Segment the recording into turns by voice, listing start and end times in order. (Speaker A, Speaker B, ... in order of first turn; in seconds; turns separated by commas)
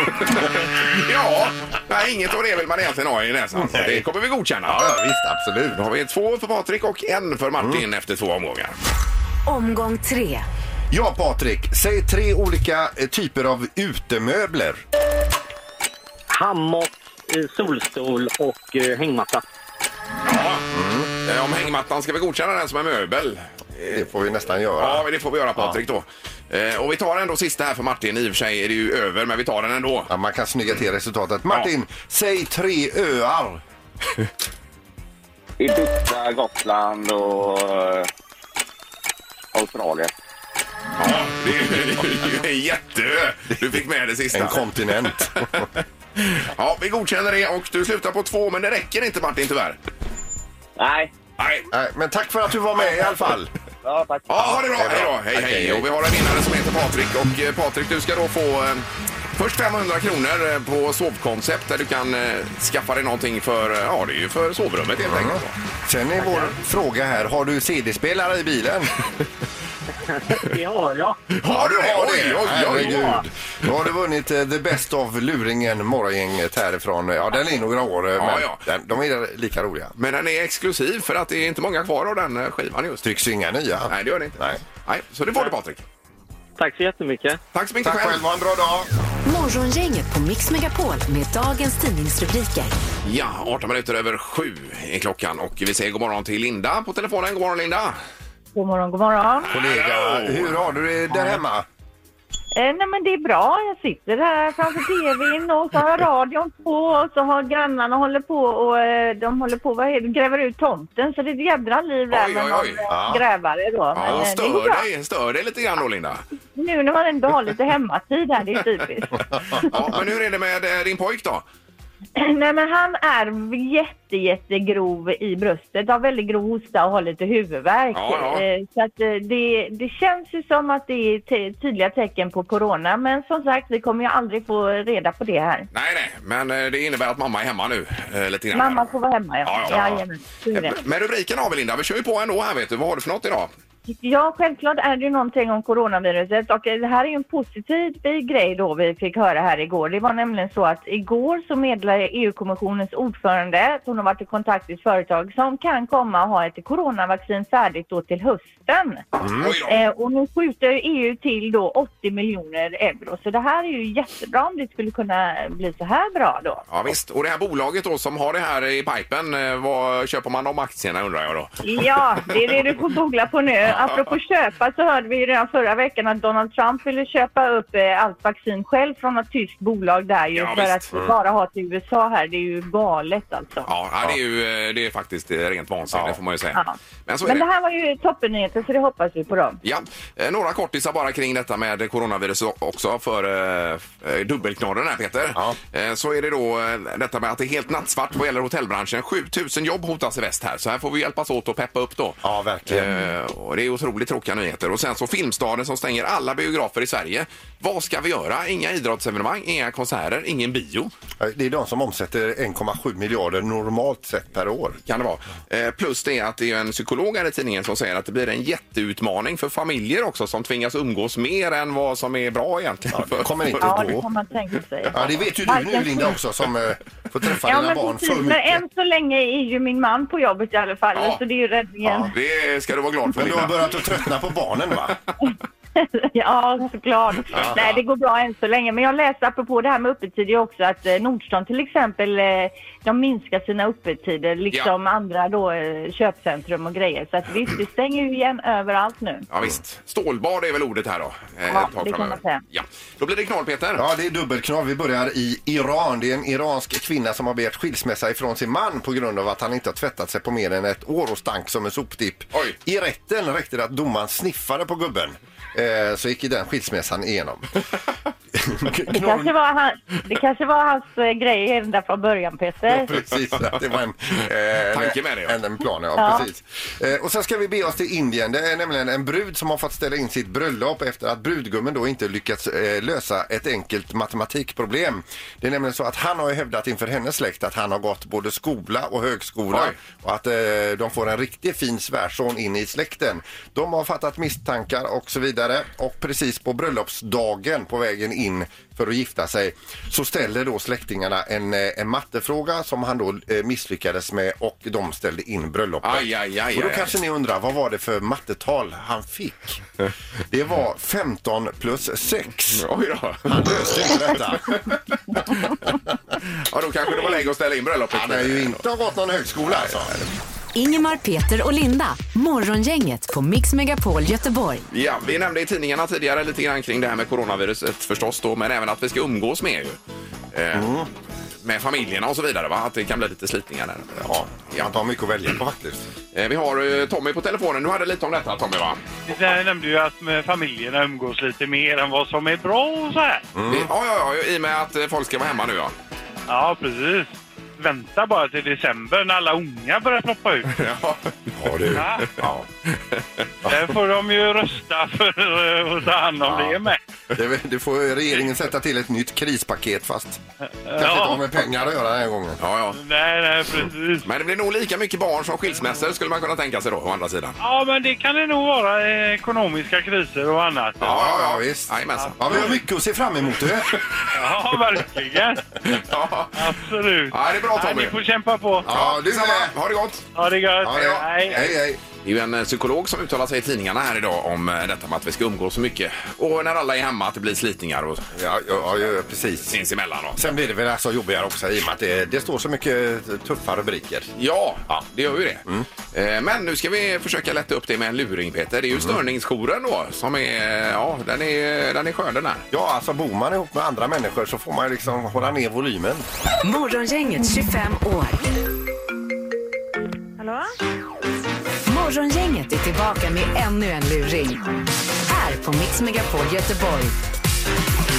Speaker A: 0.3-4.9, Speaker B: 3.5-4.0, Speaker B: 4.7-5.8, Speaker A: 5.7-8.8, Speaker C: 9.4-10.5, Speaker B: 10.9-14.8, Speaker D: 16.3-19.4, Speaker A: 20.2-20.6, Speaker B: 20.7-21.1, Speaker A: 21.2-24.0, Speaker B: 23.8-25.0, Speaker A: 24.8-30.1, Speaker B: 30.1-33.6, Speaker E: 35.6-38.1, Speaker E: 39.5-40.1, Speaker A: 41.0-45.6, Speaker B: 44.3-45.6, Speaker A: 46.2-49.8, Speaker E: 50.8-51.1, Speaker A: 51.4-51.7, Speaker B: 51.7-53.5, Speaker E: 53.8-54.7, Speaker A: 54.3-65.5, Speaker B: 54.7-55.8, Speaker B: 65.0-68.9, Speaker D: 66.2-66.5, Speaker D: 70.3-71.2, Speaker A: 71.4-73.2, Speaker B: 71.4-79.9, Speaker A: 78.2-78.6, Speaker A: 80.0-83.1, Speaker B: 83.0-84.6, Speaker A: 83.9-85.8, Speaker D: 86.6-87.4, Speaker A: 87.5-88.2, Speaker B: 87.8-88.9, Speaker C: 89.2-92.7, Speaker A: 93.0-98.0, Speaker F: 98.5-99.5, Speaker A: 99.5-100.6, Speaker B: 99.5-101.7, Speaker F: 102.5-114.8, Speaker A: 112.1-112.8, Speaker B: 112.9-113.2, Speaker A: 113.9-116.2, Speaker F: 116.5-119.8, Speaker A: 119.6-121.4, Speaker F: 122.2-135.7, Speaker A: 127.9-128.4, Speaker A: 135.7-138.9, Speaker F: 138.5-140.8, Speaker A: 139.4-140.0, Speaker A: 140.5-143.5, Speaker F: 143.9-159.0, Speaker B: 159.2-159.6, Speaker A: 159.4-159.8, Speaker F: 159.7-166.6, Speaker A: 166.7-171.5, Speaker F: 171.6-183.7, Speaker A: 180.3-180.9, Speaker A: 183.7-187.4, Speaker B: 185.9-186.2, Speaker F: 186.5-189.6, Speaker A: 189.6-210.9, Speaker B: 202.2-202.9, Speaker B: 211.2-214.8, Speaker A: 214.9-223.9, Speaker B: 222.9-224.1, Speaker F: 223.6-226.2, Speaker B: 224.9-228.6, Speaker F: 227.4-232.1, Speaker A: 230.9-231.2, Speaker B: 231.8-232.1, Speaker A: 232.1-233.7, Speaker B: 233.1-235.0, Speaker F: 235.2-249.3, Speaker B: 237.3-237.6, Speaker A: 237.3-237.8, Speaker A: 249.3-253.8, Speaker F: 251.5-252.4, Speaker B: 253.8-267.6, Speaker B: 268.4-269.3, Speaker F: 268.9-272.9, Speaker B: 272.7-309.6, Speaker A: 274.7-275.4, Speaker F: 276.0-276.2, Speaker A: 289.5-289.8, Speaker A: 305.8-306.9, Speaker B: 310.3-312.6, Speaker A: 312.5-314.8, Speaker B: 313.3-315.9, Speaker A: 316.3-318.6, Speaker B: 317.9-320.1, Speaker C: 320.5-324.6, Speaker A: 324.7-329.8, Speaker A: 330.3-330.7, Speaker B: 330.5-330.9, Speaker A: 331.4-334.7, Speaker B: 334.0-335.9, Speaker A: 336.1-338.8, Speaker G: 339.1-343.3, Speaker B: 343.3-343.7, Speaker A: 343.5-345.7, Speaker G: 346.3-350.5, Speaker A: 350.5-351.8, Speaker B: 351.3-352.4, Speaker G: 351.7-352.1, Speaker A: 352.9-353.2, Speaker G: 353.4-356.8, Speaker B: 356.2-356.6, Speaker B: 357.1-360.2, Speaker G: 360.6-361.2, Speaker B: 360.8-362.4, Speaker A: 362.4-362.8, Speaker G: 362.7-364.1, Speaker A: 364.0-367.4, Speaker G: 367.4-371.0, Speaker A: 370.8-372.6, Speaker B: 370.8-373.8, Speaker G: 371.9-372.4, Speaker G: 374.1-375.4, Speaker A: 375.6-376.5, Speaker G: 376.3-378.7, Speaker A: 377.1-377.9, Speaker B: 378.6-379.5, Speaker A: 378.7-380.0, Speaker G: 380.1-381.4, Speaker B: 380.6-381.8, Speaker A: 380.8-388.1, Speaker B: 388.1-389.6, Speaker A: 389.5-390.3, Speaker B: 390.2-394.1, Speaker A: 394.1-402.4, Speaker B: 402.5-406.0, Speaker C: 406.4-408.2, Speaker C: 411.6-414.4, Speaker C: 415.0-416.9